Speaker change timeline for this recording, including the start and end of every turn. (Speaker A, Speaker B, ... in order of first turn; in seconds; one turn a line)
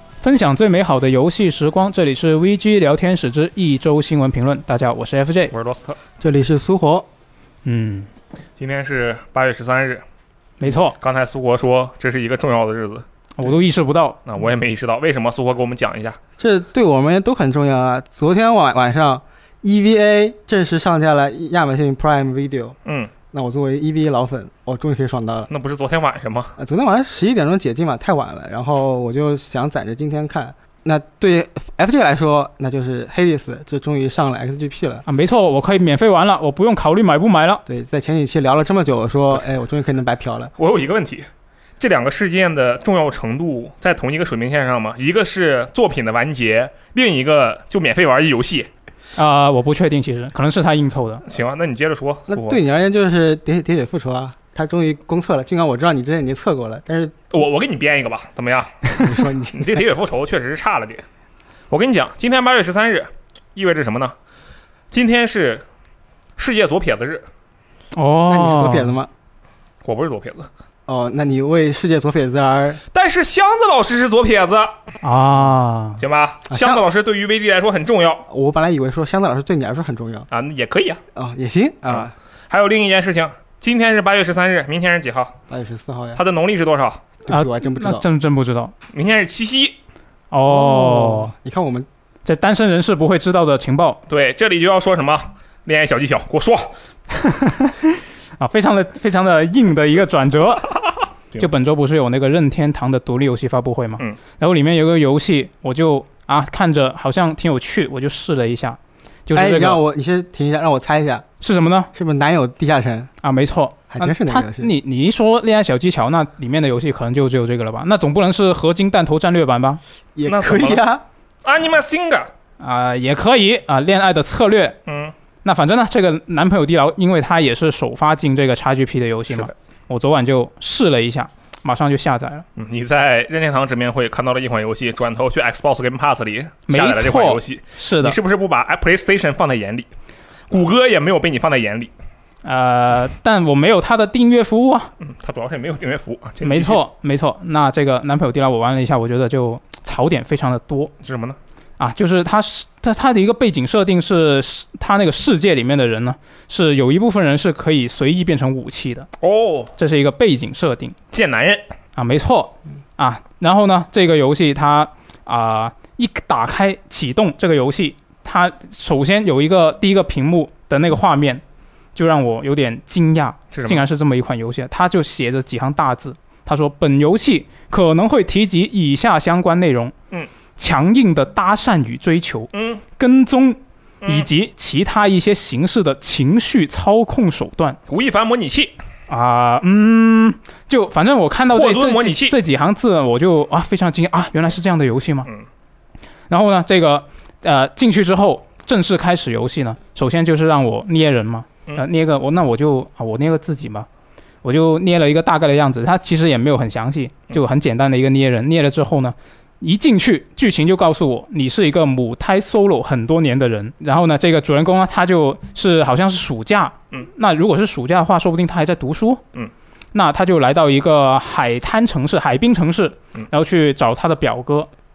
Speaker A: 0.2-5.5
Speaker B: 5.5-6.0
Speaker C: 6.2-7.1
Speaker A: 7.7-8.1
Speaker B: 8.6-10.0
Speaker A: 10.6-11.0
Speaker B: 11.0-13.1
Speaker A: 13.4-14.2
Speaker B: 14.3-16.2
Speaker C: 16.4-22.8
Speaker B: 22.9-23.1
Speaker C: 23.3-25.5
Speaker B: 25.5-26.6
Speaker C: 26.6-35.0
Speaker A: 35.1-37.6
Speaker C: 37.7-40.5
Speaker B: 40.6-41.3
Speaker B: 41.8-48.7
Speaker A: 49.2-51.2
Speaker B: 51.3-52.6
Speaker C: 52.3-57.1
Speaker B: 57.3-61.0
Speaker C: 59.0-59.8
Speaker B: 61.7-64.2
Speaker B: 64.9-65.7
Speaker B: 66.4-67.2
Speaker A: 67.9-69.0
Speaker C: 68.3-69.1
Speaker B: 69.8-70.5
Speaker C: 70.9-72.8
Speaker B: 72.9-74.8
Speaker A: 75.0-76.0
Speaker B: 76.0-78.2
Speaker C: 76.5-76.8
Speaker C: 78.3-80.3
Speaker B: 80.3-81.0
Speaker C: 81.1-82.1
Speaker B: 82.0-85.4
Speaker C: 85.5-86.2
Speaker B: 86.2-87.0
Speaker C: 87.2-88.0
Speaker A: 87.3-88.7
Speaker B: 88.9-89.8
Speaker A: 90.3-91.3
Speaker C: 90.5-91.9
Speaker A: 92.2-94.0
Speaker B: 94.1-96.7
Speaker A: 97.1-100.8
Speaker A: 101.4-109.8
Speaker C: 109.3-111.3
Speaker A: 111.4-111.9
Speaker C: 111.9-113.1
Speaker A: 113.2-119.8
Speaker C: 113.9-114.7
Speaker C: 120.2-121.0
Speaker B: 120.3-120.8
Speaker B: 121.4-122.3
Speaker A: 122.6-124.8
Speaker B: 124.9-125.1
Speaker A: 125.4-132.4
Speaker B: 132.6-139.9
Speaker A: 136.7-138.2
Speaker B: 140.5-141.9
Speaker A: 142.4-144.9
Speaker B: 145.0-146.8
Speaker A: 146.4-150.9
Speaker B: 151.0-151.4
Speaker A: 151.8-159.1
Speaker B: 159.2-159.7
Speaker A: 159.8-161.0
Speaker B: 161.1-161.7
Speaker A: 162.0-171.4
Speaker A: 172.0-179.9
Speaker B: 173.5-173.8
Speaker A: 180.6-187.8
Speaker B: 182.5-182.8
Speaker B: 184.0-184.3
Speaker B: 187.9-188.8
Speaker A: 189.1-195.3
Speaker B: 191.5-192.3
Speaker A: 196.3-203.9
Speaker A: 204.4-219.2
Speaker A: 219.9-224.7